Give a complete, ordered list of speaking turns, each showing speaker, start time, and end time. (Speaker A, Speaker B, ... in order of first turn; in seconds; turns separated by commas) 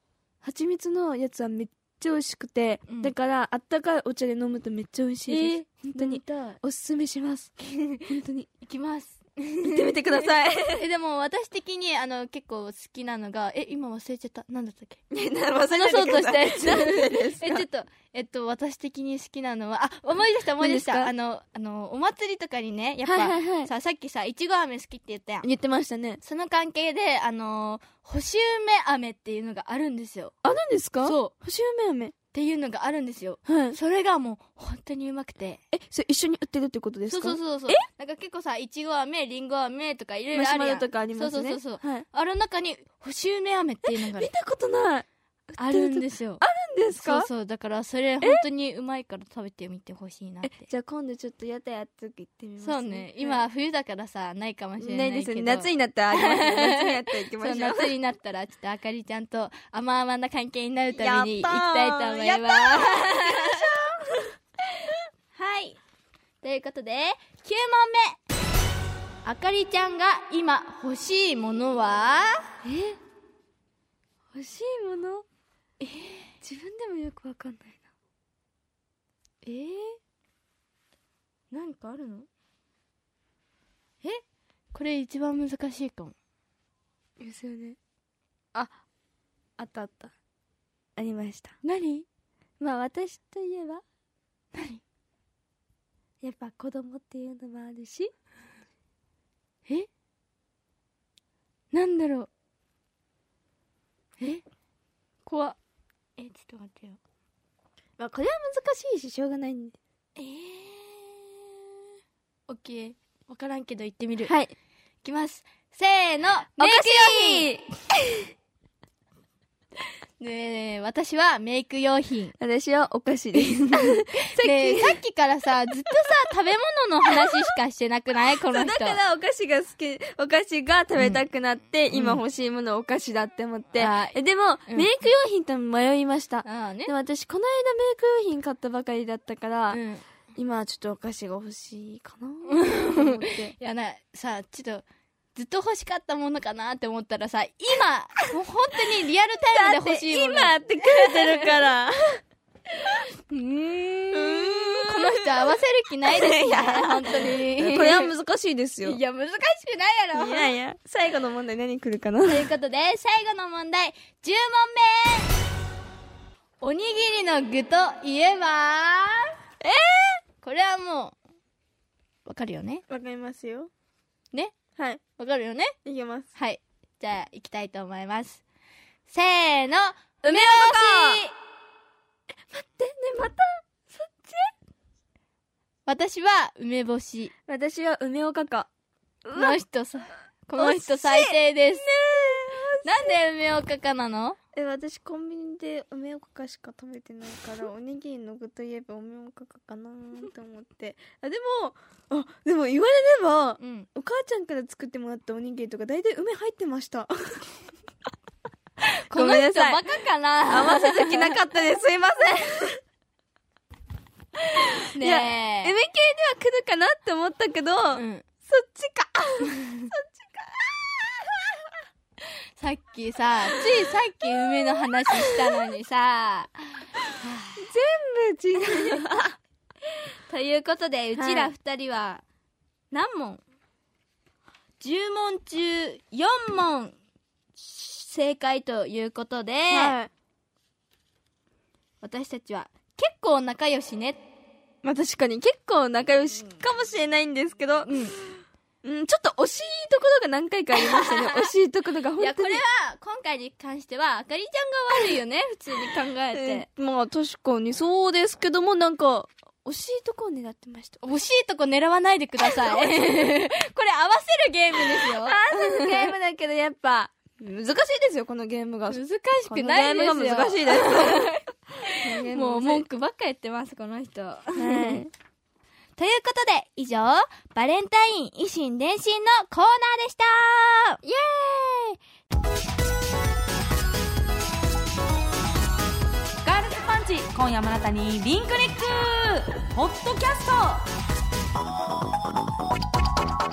Speaker A: 0.4-7.5, Speaker B: 2.9-3.1, Speaker B: 5.3-6.6, Speaker B: 7.6-8.1, Speaker A: 8.0-8.5, Speaker B: 8.6-15.0, Speaker A: 9.6-10.8, Speaker A: 15.1-17.6, Speaker B: 15.7-25.5, Speaker A: 20.6-21.1, Speaker A: 23.1-23.7, Speaker A: 25.4-26.2, Speaker B: 26.2-30.4, Speaker A: 30.4-32.1, Speaker B: 31.0-31.3, Speaker B: 32.3-35.6, Speaker A: 33.5-33.8, Speaker A: 35.7-37.8, Speaker B: 37.1-44.3, Speaker A: 40.3-42.0, Speaker A: 43.9-47.3, Speaker B: 45.6-50.6, Speaker A: 50.4-53.4, Speaker B: 52.6-63.6, Speaker A: 54.8-57.9, Speaker A: 60.9-64.3, Speaker B: 65.3-65.8, Speaker B: 66.4-68.2, Speaker B: 69.2-72.5, Speaker A: 72.6-73.0, Speaker A: 74.3-75.2, Speaker B: 75.8-76.3, Speaker A: 76.4-77.8, Speaker B: 79.4-80.0, Speaker B: 81.5-82.3, Speaker B: 84.7-86.1, Speaker A: 87.2-87.8, Speaker A: 89.6-90.1, Speaker A: 91.0-91.6, Speaker B: 91.6-92.0, Speaker A: 92.6-93.8, Speaker B: 94.5-94.8, Speaker A: 96.2-98.1, Speaker B: 101.7-102.3, Speaker B: 105.2-105.6, Speaker B: 106.2-107.0, Speaker A: 108.0-109.8, Speaker B: 110.2-111.6, Speaker B: 112.5-114.3, Speaker A: 114.3-114.5, Speaker B: 115.0-117.5, Speaker A: 116.6-118.2, Speaker B: 120.2-122.3, Speaker A: 122.4-125.0, Speaker B: 123.3-129.0, Speaker A: 128.5-139.8, Speaker B: 131.9-132.2, Speaker B: 133.8-134.2, Speaker B: 136.4-136.9, Speaker B: 139.7-140.0, Speaker A: 140.3-143.5, Speaker B: 142.5-151.5, Speaker A: 149.5-152.2, Speaker B: 152.7-158.1, Speaker A: 154.1-155.5, Speaker A: 156.1-159.0, Speaker B: 158.8-160.5, Speaker A: 160.1-162.5, Speaker B: 162.2-165.3, Speaker B: 166.6-169.3, Speaker A: 169.6-170.2, Speaker B: 170.4-171.2, Speaker B: 172.2-172.8, Speaker A: 172.9-173.7, Speaker A: 174.8-175.0, Speaker B: 175.2-175.7, Speaker A: 175.8-176.3, Speaker B: 176.3-178.4, Speaker B: 179.1-181.3, Speaker A: 180.2-181.2, Speaker A: 182.5-184.5, Speaker B: 185.8-187.3, Speaker A: 187.5-188.7, Speaker A: 189.2-189.6, Speaker B: 189.3-192.0, Speaker A: 190.6-193.1, Speaker B: 192.8-194.4, Speaker A: 194.5-207.4, Speaker B: 203.6-203.9, Speaker B: 209.1-211.4, Speaker A: 209.1-209.8, Speaker A: 210.5-212.8, Speaker B: 214.8-215.7, Speaker A: 215.0-221.7, Speaker B: 217.9-218.2, Speaker B: 219.6-219.9, Speaker B: 222.6-227.7, Speaker A: 223.5-225.5, Speaker A: 227.6-229.4, Speaker B: 230.3-232.2, Speaker A: 231.2-231.5, Speaker B: 232.9-233.4, Speaker B: 234.8-236.9, Speaker B: 237.6-239.9, Speaker A: 239.7-240.1, Speaker B: 242.0-244.2, Speaker A: 244.8-247.9, Speaker B: 247.8-248.2, Speaker A: 248.8-252.6, Speaker B: 250.8-251.5, Speaker B: 252.2-256.6, Speaker A: 256.3-261.0, Speaker B: 261.0-266.1, Speaker A: 262.4-263.1, Speaker A: 264.9-271.3, Speaker B: 268.9-275.0, Speaker A: 272.0-272.8, Speaker A: 274.6-275.1, Speaker B: 276.0-281.0, Speaker A: 281.0-282.0, Speaker C: 286.4-290.9